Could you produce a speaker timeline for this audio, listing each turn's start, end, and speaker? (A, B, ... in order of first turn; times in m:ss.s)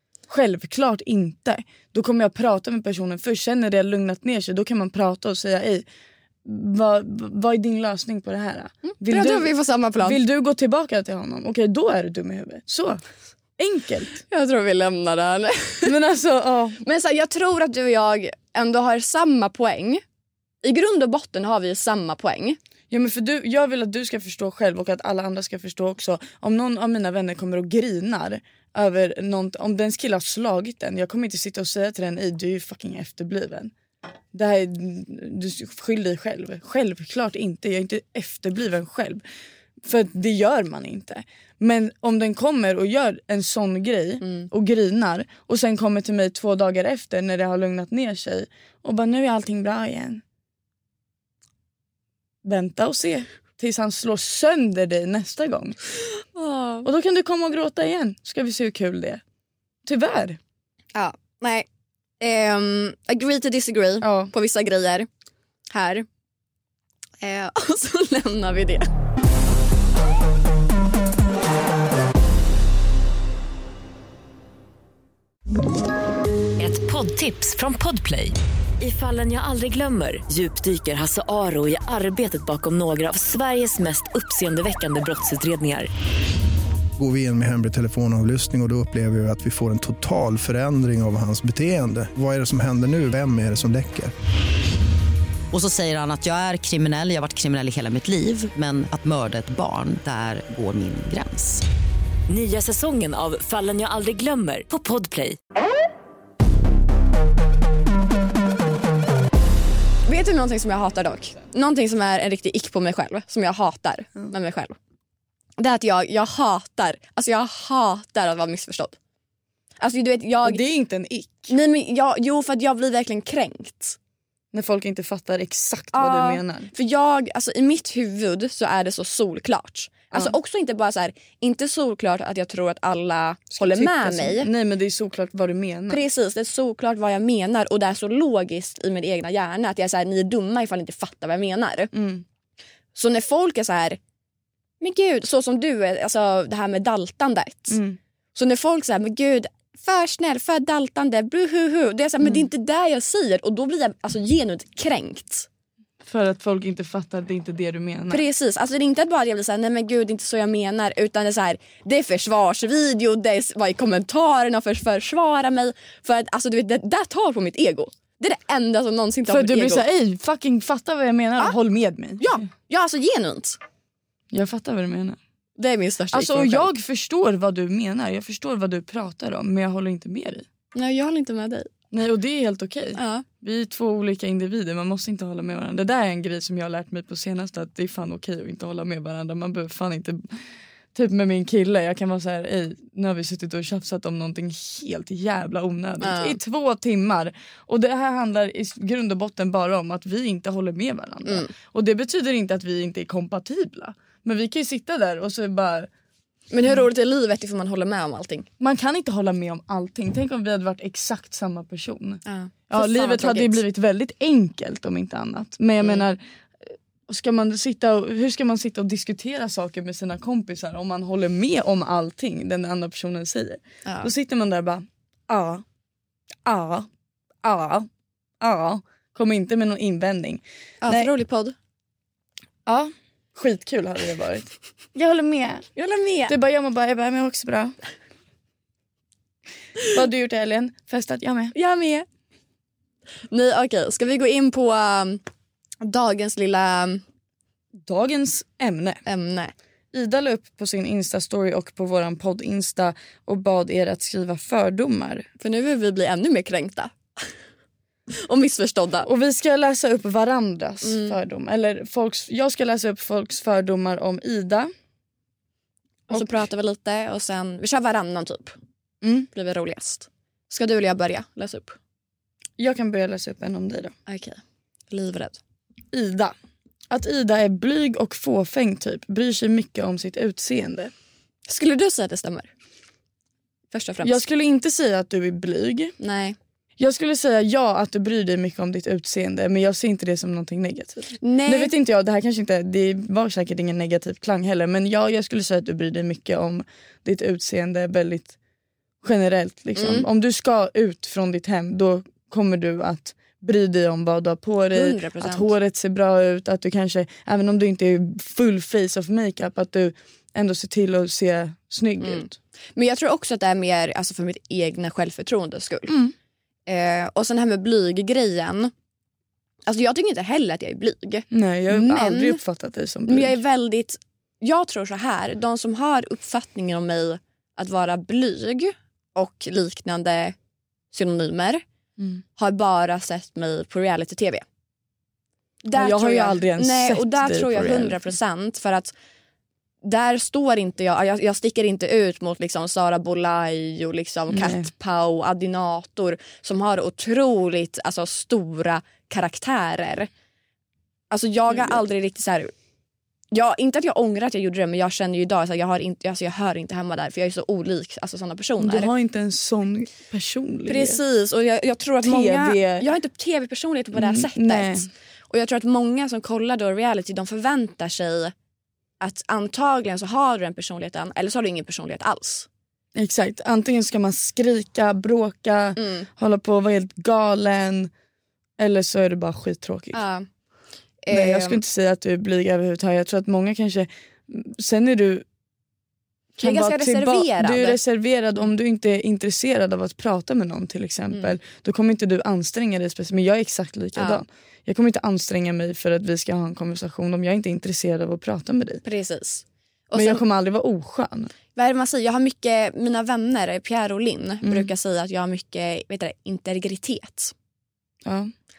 0:00.3-0:05.9 A
0:06.4-0:13.0 A
0:08.8-0:10.2 B
0:13.6-0:14.2 A
0:14.2-0:15.9 B
0:15.8-0:16.8 A
0:16.8-0:20.0 B
0:20.6-0:22.6 B
0:22.9-0:33.7 A
0:34.3-0:39.2 A
0:39.8-0:50.2 A
0:44.2-0:44.5 B
0:52.4-0:55.8 A
0:56.3-0:56.9 B
0:56.8-0:59.2 A
0:59.8-1:00.4 A
1:00.9-1:01.7 B
1:02.2-1:05.1 B
1:04.0-1:04.3 A
1:05.7-1:06.0 B
1:07.2-1:08.9 B
1:16.6-1:25.9 C
1:27.0-1:34.1 D
1:35.5-1:41.6 E
1:42.3-1:45.4 C
1:50.0-1:54.8 B
1:55.6-1:59.0 B
1:59.8-2:00.6 B
2:00.4-2:01.5 A
2:01.5-2:04.0 B
2:04.5-2:06.7 A
2:05.9-2:14.5 B
2:13.5-2:16.0 A
2:15.9-2:21.9 B
2:21.9-2:22.2 A
2:22.9-2:24.0 B
2:24.8-2:27.8 B
2:27.7-2:28.0 A
2:28.3-2:35.5 B
2:36.0-2:38.2 A
2:38.1-2:49.8 B
2:49.3-2:52.4 A
2:52.2-2:53.6 B
2:54.3-2:55.2 A
2:55.6-2:56.7 B
2:56.1-3:00.4 A
3:00.7-3:01.7 B
3:01.9-3:10.3 A
3:02.9-3:03.2 B
3:10.9-3:25.9 A
3:16.0-3:16.4 B
3:21.2-3:21.5 B
3:26.5-3:28.5 B
3:28.6-3:45.6 A
3:32.2-3:33.6 B
3:43.8-3:44.1 B
3:46.4-3:46.9 A
3:47.4-3:47.9 A
3:48.4-3:51.1 A
3:50.8-3:51.5 B
3:52.6-3:55.7 A
3:55.8-3:56.3 B
3:56.3-3:57.8 A
3:59.9-4:01.5 A
4:01.5-4:02.0 B
4:03.3-4:05.2 B
4:05.8-4:07.0 B
4:07.8-4:09.0 A
4:09.0-4:09.5 B
4:09.9-4:15.3 A
4:15.4-4:17.4 B
4:18.2-4:19.1 B
4:19.0-4:24.7 A
4:20.8-4:21.2 B
4:26.1-4:26.4 A
4:26.1-4:28.6 B
4:29.0-4:29.3 A
4:29.3-4:31.8 B
4:32.6-4:33.9 A
4:34.1-4:35.4 B
4:35.9-4:36.3 A
4:36.9-4:40.9 A
4:41.4-4:42.5 B
4:43.7-4:44.2 B
4:44.0-4:45.9 A
4:46.0-4:46.4 B
4:46.8-4:58.3 A
4:51.2-4:51.7 B
4:59.0-5:12.4 A
4:59.8-5:00.1 B
5:04.7-5:05.5 B
5:12.0-5:15.9 B
5:15.9-5:16.1 A
5:16.7-5:18.7 B
5:19.6-5:22.4 B
5:21.3-5:23.4 A
5:23.1-5:30.4 B
5:30.9-5:31.6 B
5:32.4-5:34.4 B
5:35.6-5:38.9 B
5:35.7-5:38.0 A
5:39.8-5:50.1 B
5:44.3-5:44.7 A
5:51.1-5:52.5 B
5:51.5-5:51.8 A
5:53.3-5:58.9 B
5:58.6-6:01.0 A
6:00.7-6:08.3 B
6:02.0-6:02.9 A
6:03.9-6:04.9 A
6:09.0-6:12.5 B
6:12.9-6:17.9 A
6:15.8-6:16.1 B
6:18.6-6:20.0 A
6:19.9-6:20.2 B
6:21.0-6:21.6 B
6:21.1-6:25.2 A
6:26.4-6:38.8 A
6:26.4-6:27.8 B
6:34.0-6:34.2 B
6:38.8-6:40.2 B
6:39.9-6:41.3 A
6:41.5-6:47.3 B
6:44.4-6:44.7 A
6:48.0-6:48.3 A